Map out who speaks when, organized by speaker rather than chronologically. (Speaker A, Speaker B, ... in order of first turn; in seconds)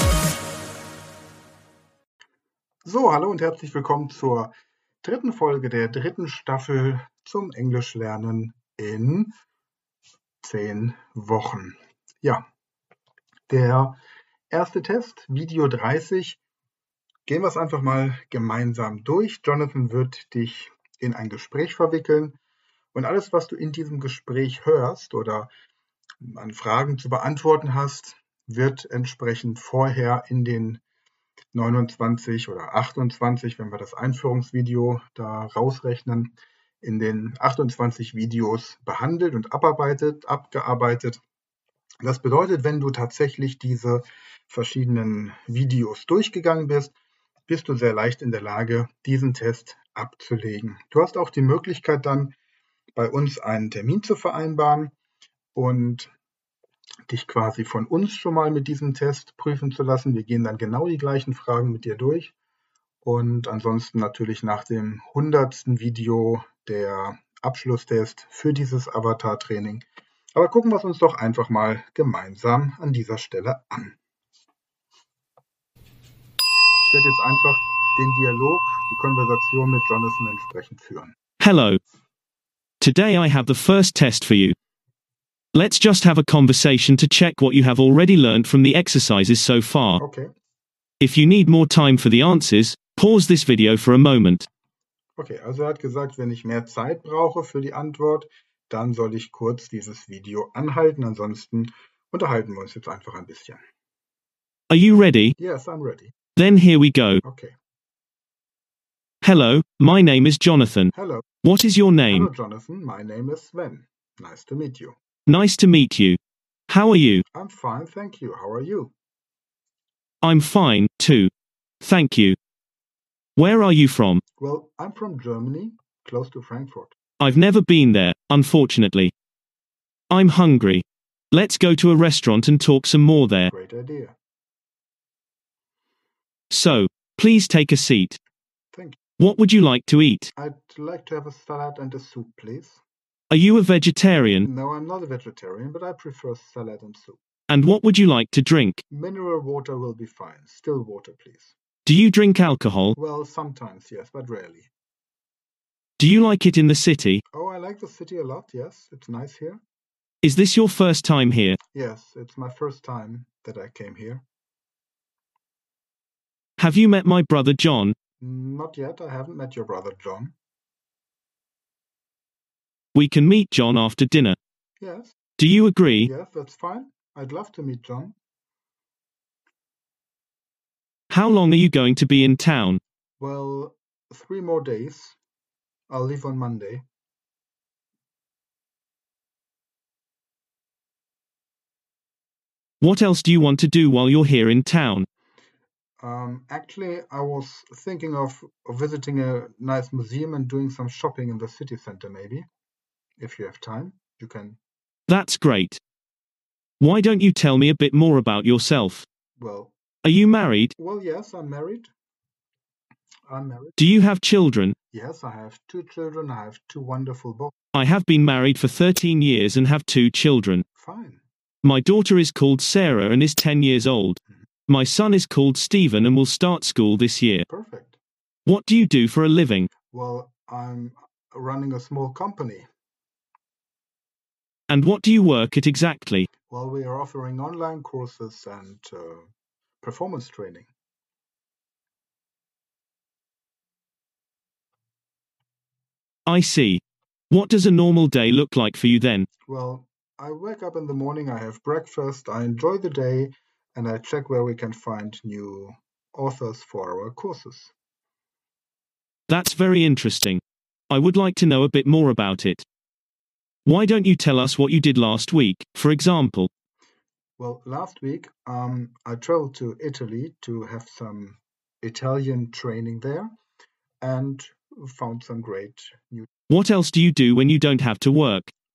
Speaker A: 2.8-4.5, 5.0-9.3, 10.4-12.4, 13.5-14.0, 14.5-16.4, 17.2-22.4, 22.9-25.5, 26.2-30.8, 31.5-41.2, 42.0-46.9, 47.5-52.3, 52.9-54.9, 55.5-56.1, 57.1-62.3, 63.0-69.8, 70.3-74.0, 76.9-81.1, 90.0-90.3, 95.2-103.6, 105.4-106.1, 107.2-107.5, 110.9-111.3, 112.1-115.0, 117.3-118.9, 124.4-126.9, 133.5-134.1, 138.7-139.0, 140.3-142.8, 144.4-147.2, 148.9-151.5, 152.9-154.7, 157.3-159.6, 161.7-164.2, 168.2-170.3, 174.8-175.1, 176.0-178.1, 183.2-185.2, 185.9-186.8, 196.0-202.5, 203.2-204.6, 209.4-209.7, 210.8-211.9, 213.3-213.8, 214.9-217.5, 220.7-221.2, 227.5-228.0, 229.9-232.7, 236.5-239.3, 239.8-240.7, 249.5-257.7, 267.4-273.3, 274.0-276.3
Speaker B: 81.4-81.8, 82.8-84.5, 85.5-90.0, 91.0-94.5, 104.7-105.3, 106.3-107.2, 109.2-110.9, 111.4-112.3, 115.3-116.2, 116.7-117.2, 120.2-121.3, 121.8-122.3, 123.4-124.2, 127.2-129.1, 130.1-133.5, 136.5-138.2, 139.2-140.3, 143.3-144.5, 147.5-148.8, 151.8-152.9, 156.0-157.2, 160.2-161.6, 166.6-167.9, 172.9-174.3, 175.4-176.1, 181.1-182.8, 192.8-195.1, 205.1-205.8, 206.8-209.1, 210.0-210.7, 213.8-214.7, 217.7-220.6, 221.6-227.4, 228.4-229.7, 234.7-236.3, 246.3-249.3, 259.3-262.6, 263.6-266.5, 276.5-278.5